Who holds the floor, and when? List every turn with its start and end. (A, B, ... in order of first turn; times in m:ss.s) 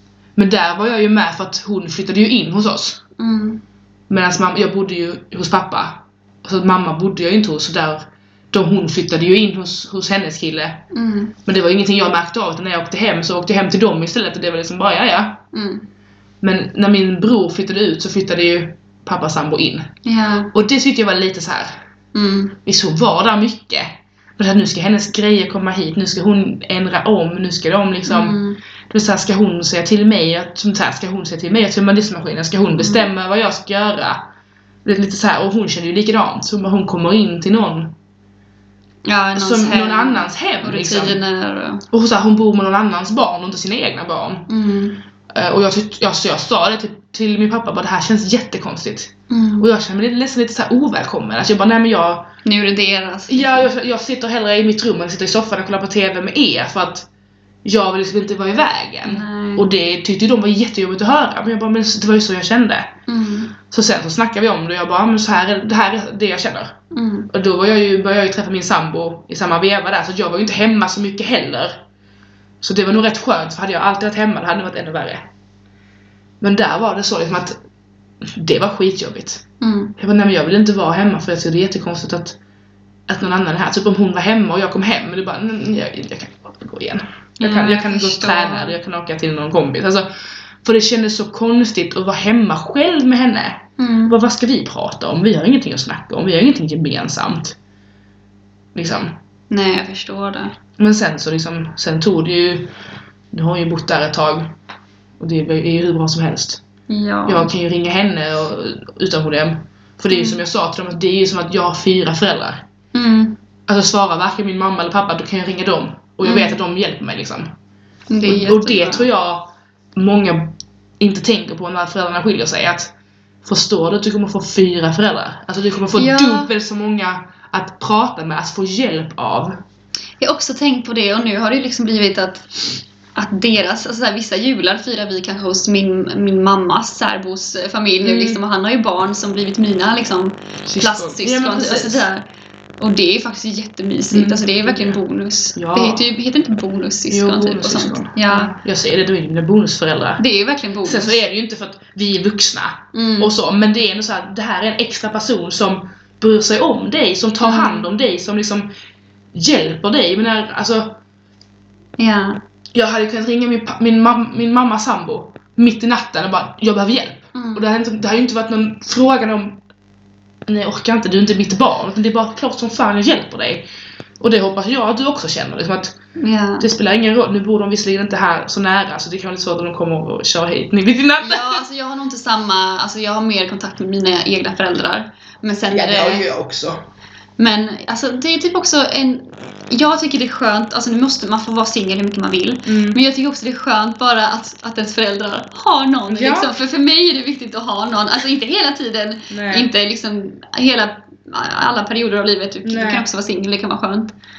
0:00.4-0:03.0 A
0:03.2-0:03.6 B
0:04.1-0:10.8 A
0:10.9-0:11.4 B
0:11.4-0:15.4 A
0:15.5-0:15.8 B
0:16.4-0:19.9 A
0:20.0-0:20.5 B
0:20.5-0:21.7 A
0:22.1-0:22.6 B
0:22.6-0:34.2 A
0:28.0-0:28.6 B
0:32.8-0:33.1 B
0:34.8-0:37.9 A
0:39.0-0:41.8 B
0:39.4-0:41.2 A
0:41.9-0:44.5 A
0:44.5-0:45.0 B
0:45.3-0:52.3 A
0:49.3-0:49.7 B
0:52.4-0:53.7 B
0:53.3-0:57.1 A
0:57.6-1:02.9 A
0:59.0-0:59.6 B
1:03.1-1:03.5 B
1:03.7-1:06.8 A
1:06.9-1:07.3 B
1:07.3-1:11.8 A
1:12.6-1:15.3 A
1:16.4-1:17.6 A
1:18.2-1:19.4 A
1:19.6-1:19.9 B
1:20.0-1:22.4 A
1:23.1-1:30.1 A
1:27.4-1:28.8 B
1:30.6-1:37.6 A
1:33.8-1:34.2 B
1:38.7-1:39.2 A
1:39.5-1:40.6 B
1:40.8-1:42.7 A
1:43.3-1:44.5 A
1:45.2-1:46.6 A
1:46.9-1:47.5 B
1:47.2-1:52.6 A
1:50.1-1:50.4 B
1:52.9-1:53.4 B
1:53.7-1:57.5 A
1:56.2-1:56.6 B
1:58.1-1:59.1 B
1:58.2-2:02.9 A
2:03.4-2:09.6 A
2:05.9-2:06.5 B
2:10.2-2:22.2 B
2:18.0-2:18.4 A
2:20.7-2:22.0 A
2:22.8-2:28.6 B
2:24.1-2:25.0 A
2:25.5-2:26.1 A
2:27.1-2:30.2 A
2:30.2-2:31.2 B
2:30.8-2:38.7 A
2:32.9-2:33.3 B
2:37.4-2:37.9 B
2:39.3-2:41.0 A
2:42.0-2:42.4 B
2:42.7-2:49.6 A
2:47.3-2:47.6 B
2:50.5-2:53.6 A
2:54.2-2:56.0 A
2:56.2-2:56.7 B
2:56.6-3:01.6 A
3:01.2-3:06.3 B
3:05.7-3:06.8 A
3:07.4-3:24.1 B
3:12.6-3:13.0 A
3:16.1-3:16.5 A
3:19.3-3:19.7 A
3:22.6-3:23.0 A